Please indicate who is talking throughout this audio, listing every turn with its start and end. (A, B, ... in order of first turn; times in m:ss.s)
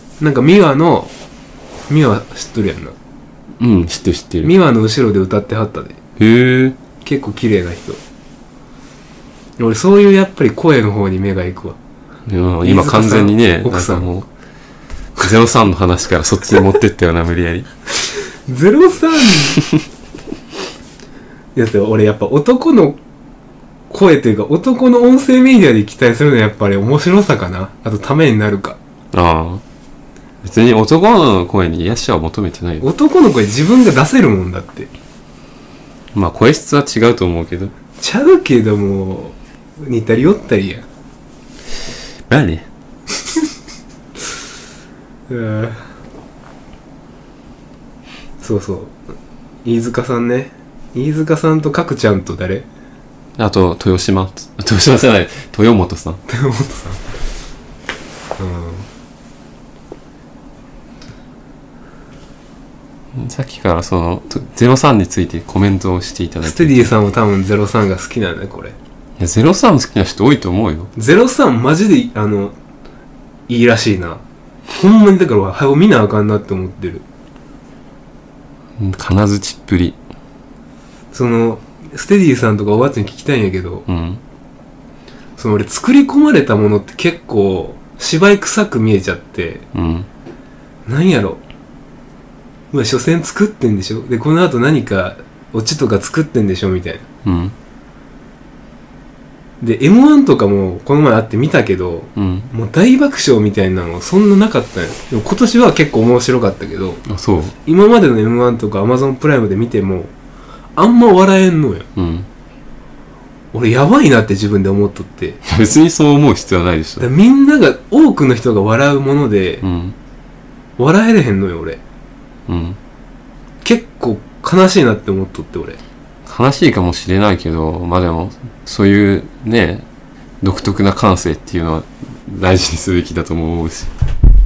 0:00.2-0:01.1 A
0:01.9-0:03.0 A
0:03.6-0:04.5 B
0:04.4-0:06.0 A
0:06.2-0:06.8 B
0:07.0-0:08.0 A
0:09.6-0:11.8 A
0:12.3-0:14.3 B
0:12.6-0:14.1 A
0:15.2-0:17.7 B
0:18.5-0:19.6 A
0:21.6-0:23.0 A
0:23.9-0:28.8 A
0:29.1-0:29.6 B
0:30.4-0:32.9 B
0:32.8-0:34.9 A
0:36.1-0:37.7 B
0:38.0-0:40.8 A
0:42.3-0:42.7 B
0:45.3-0:45.9 A
0:48.4-0:49.0 A
0:49.6-0:52.7 A
0:53.4-0:56.2 B
0:56.3-0:57.0 A
0:58.4-0:58.9 A
1:03.1-1:06.9 B
1:06.4-1:08.8 A
1:09.2-1:10.9 B
1:11.0-1:12.6 A
1:13.5-1:17.0 A
1:18.8-1:20.0 B
1:21.1-1:23.9 A
1:23.9-1:24.2 B
1:25.4-1:29.7 A
1:29.7-1:30.1 B
1:30.9-1:31.4 A
1:32.7-1:37.1 A
1:37.2-1:37.6 B
1:39.6-1:47.0 A
1:42.2-1:42.5 B
1:47.1-1:47.6 B
1:47.6-1:50.1 A
1:50.8-1:51.9 A
1:52.0-1:52.3 B
1:53.5-1:55.4 A
1:55.4-1:57.1 B
1:57.0-1:59.6 A
1:59.6-2:00.0 B
2:00.8-2:01.8 A
2:02.5-2:02.8 B
2:03.6-2:05.8 A
2:06.3-2:09.9 B
2:10.4-2:13.9 B